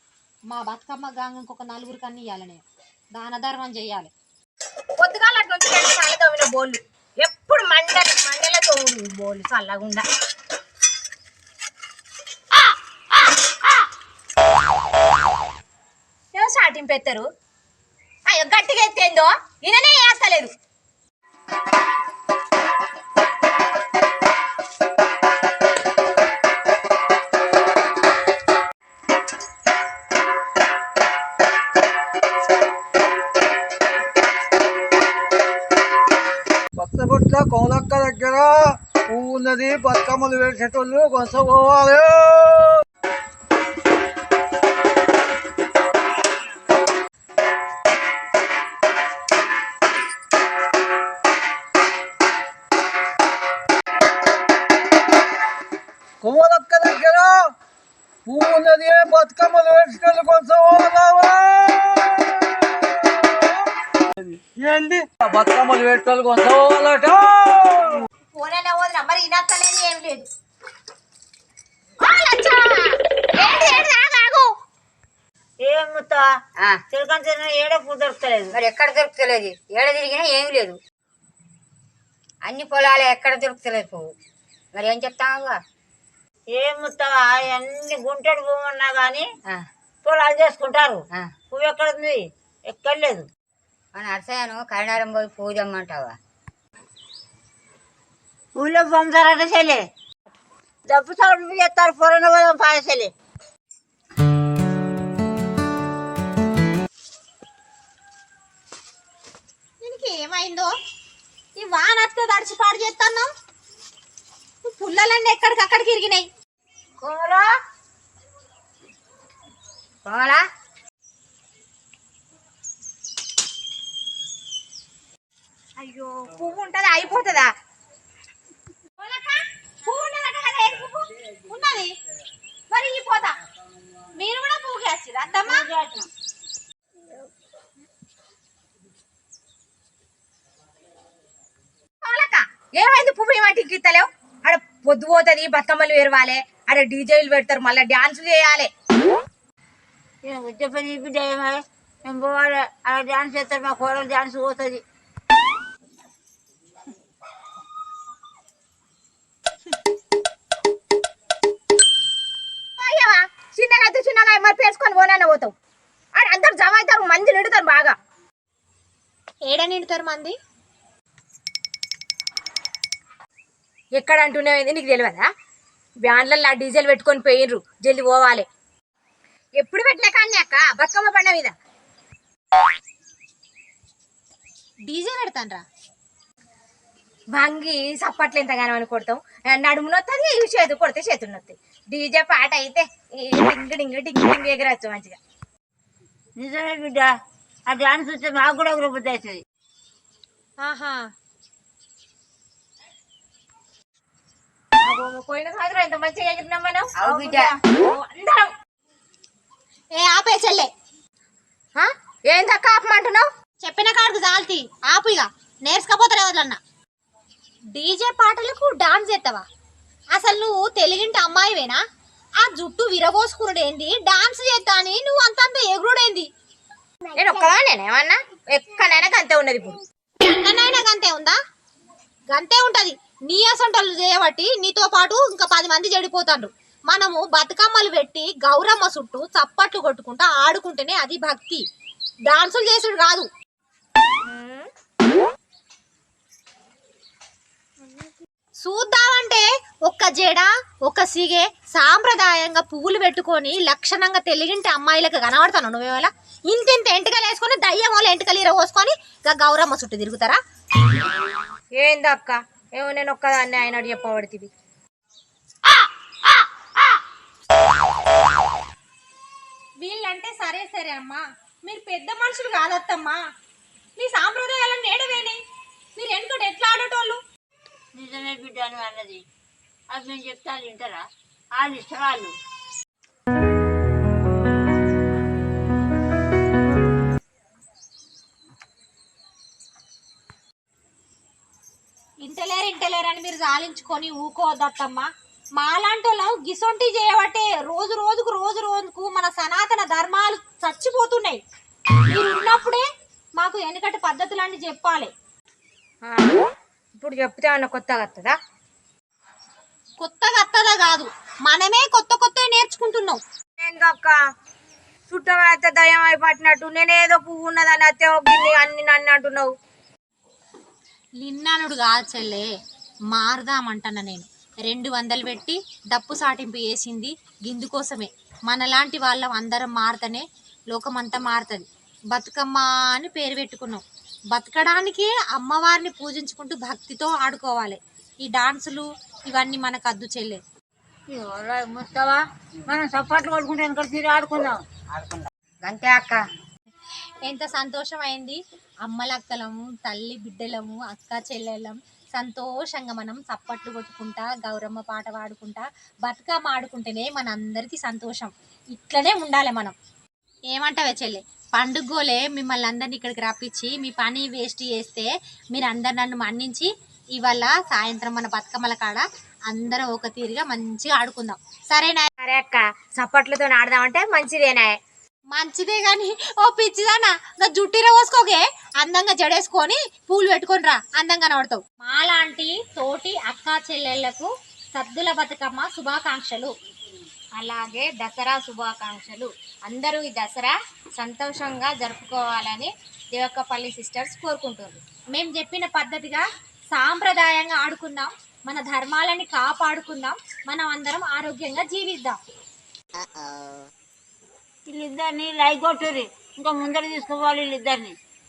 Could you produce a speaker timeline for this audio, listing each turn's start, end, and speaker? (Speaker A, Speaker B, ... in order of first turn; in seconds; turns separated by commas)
Speaker A: 0.5-2.6, Speaker A: 3.1-4.1, Speaker B: 5.0-10.1, Speaker B: 16.3-17.3, Speaker B: 18.3-20.5, Speaker C: 36.8-42.8, Speaker C: 56.2-57.5, Speaker C: 58.3-62.7, Speaker C: 64.4-68.0, Speaker B: 68.3-70.3, Speaker B: 72.0-74.5, Speaker D: 75.6-76.3, Speaker D: 76.9-78.5, Speaker E: 78.5-80.8, Speaker E: 82.5-84.1, Speaker E: 84.7-85.6, Speaker D: 86.5-89.3, Speaker D: 90.0-93.3, Speaker E: 94.0-96.2, Speaker D: 98.6-99.8, Speaker D: 100.9-103.1, Speaker A: 109.8-110.7, Speaker A: 111.6-113.3, Speaker A: 114.6-116.3, Speaker D: 117.0-117.5, Speaker E: 120.0-120.5, Speaker B: 125.8-127.5, Speaker A: 129.0-131.9, Speaker A: 132.7-133.3, Speaker A: 134.2-135.7, Speaker D: 135.5-136.1, Speaker B: 142.0-148.7, Speaker D: 150.2-154.8, Speaker B: 162.8-165.5, Speaker B: 166.2-167.9, Speaker A: 169.5-170.4, Speaker B: 174.0-175.3, Speaker B: 176.0-178.5, Speaker B: 179.6-181.5, Speaker A: 184.9-185.6, Speaker B: 187.3-195.2, Speaker D: 196.4-197.1, Speaker D: 197.7-199.4, Speaker A: 200.6-201.1, Speaker B: 204.8-206.9, Speaker E: 207.0-207.5, Speaker D: 207.0-207.6, Speaker B: 207.7-208.5, Speaker A: 209.9-210.7, Speaker B: 211.8-213.3, Speaker A: 213.6-216.6, Speaker A: 217.7-219.4, Speaker A: 220.1-221.8, Speaker A: 222.4-226.3, Speaker B: 227.1-229.8, Speaker A: 230.2-231.4, Speaker A: 232.3-241.6, Speaker A: 242.3-243.3, Speaker B: 244.2-244.7, Speaker A: 248.6-260.4, Speaker B: 261.8-264.5, Speaker A: 269.8-273.2, Speaker A: 274.0-275.4, Speaker A: 276.0-277.2, Speaker D: 277.9-279.2, Speaker D: 279.9-281.0, Speaker D: 281.6-282.3, Speaker A: 292.2-301.4, Speaker A: 302.1-302.9, Speaker A: 303.4-305.1, Speaker B: 306.0-306.5, Speaker B: 307.0-308.4, Speaker A: 310.0-313.2, Speaker B: 313.6-314.2, Speaker B: 315.1-319.5, Speaker A: 321.2-322.5, Speaker A: 323.1-340.4, Speaker D: 341.1-344.6, Speaker E: 344.9-346.2, Speaker A: 347.2-359.8, Speaker A: 360.5-372.1, Speaker B: 372.2-374.8, Speaker A: 375.3-386.5, Speaker B: 387.4-394.8, Speaker A: 395.1-402.2, Speaker D: 404.7-408.0